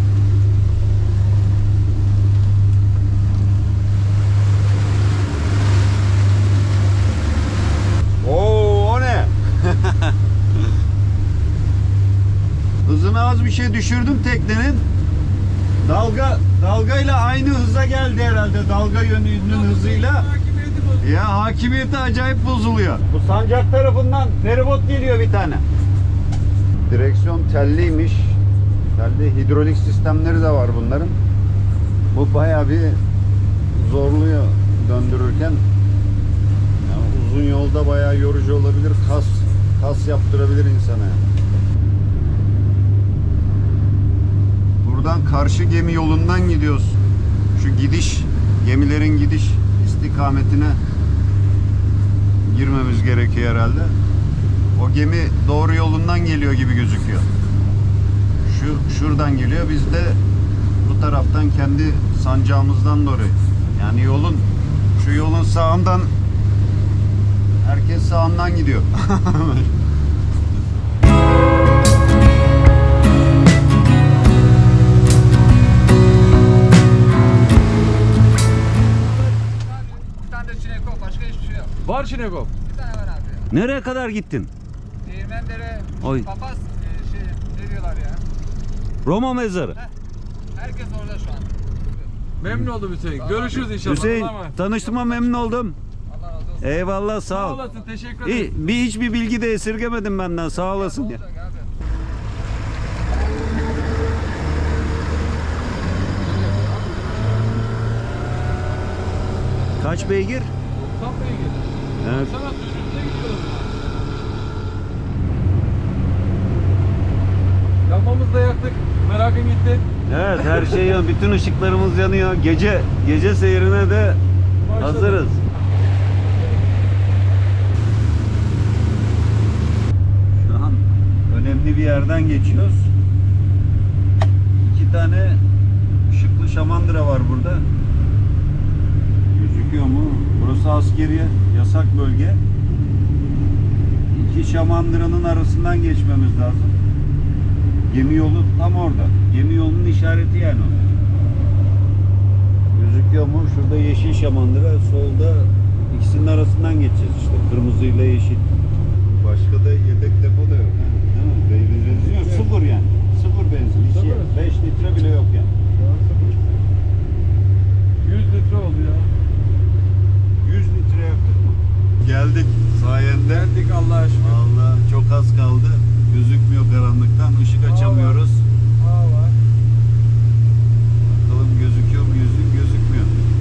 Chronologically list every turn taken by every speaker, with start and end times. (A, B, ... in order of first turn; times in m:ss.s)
0:08.2-0:10.7 A
0:12.8-0:14.8 A
0:15.8-0:20.3 A
0:19.4-0:21.1 B
0:21.0-0:25.6 A
0:26.9-0:28.4 A
0:28.9-0:31.2 A
0:32.1-0:33.0 A
0:33.7-0:35.6 A
0:36.8-0:41.2 A
0:44.8-0:47.0 A
0:47.5-0:50.8 A
0:52.4-0:53.9 A
0:54.8-0:57.3 A
0:58.4-1:00.2 A
1:00.8-1:06.1 A
1:07.6-1:09.7 A
1:19.1-1:21.8 C
1:21.8-1:22.5 B
1:22.6-1:23.5 C
1:23.5-1:24.5 A
1:25.0-1:28.2 C
1:26.0-1:26.3 A
1:29.0-1:29.8 A
1:30.5-1:32.1 C
1:32.4-1:34.6 B
1:33.2-1:34.0 C
1:33.5-1:35.8 A
1:34.6-1:35.4 C
1:36.1-1:36.9 C
1:36.6-1:37.6 A
1:37.3-1:38.5 B
1:37.5-1:37.9 C
1:38.2-1:41.2 A
1:40.5-1:41.7 C
1:46.2-1:47.4 B
1:49.8-1:50.5 A
1:50.8-1:53.8 B
1:52.0-1:52.3 A
1:57.8-1:59.8 B
2:00.0-2:04.2 A
2:04.6-2:05.3 B
2:04.8-2:05.4 A
2:10.3-2:12.9 A
2:14.6-2:15.4 A
2:16.1-2:17.6 A
2:19.3-2:22.4 A
2:24.1-2:26.7 A
2:27.9-2:30.8 A
2:32.7-2:38.5 A
2:39.0-2:45.5 A
2:42.2-2:42.5 B
2:43.9-2:44.4 B
2:45.8-2:46.4 B
2:48.0-2:49.1 B
2:50.4-2:53.5 A
2:53.3-2:54.4 B
2:54.2-2:58.4 A
2:57.6-2:58.2 B
2:58.8-2:59.4 B
3:01.0-3:03.1 A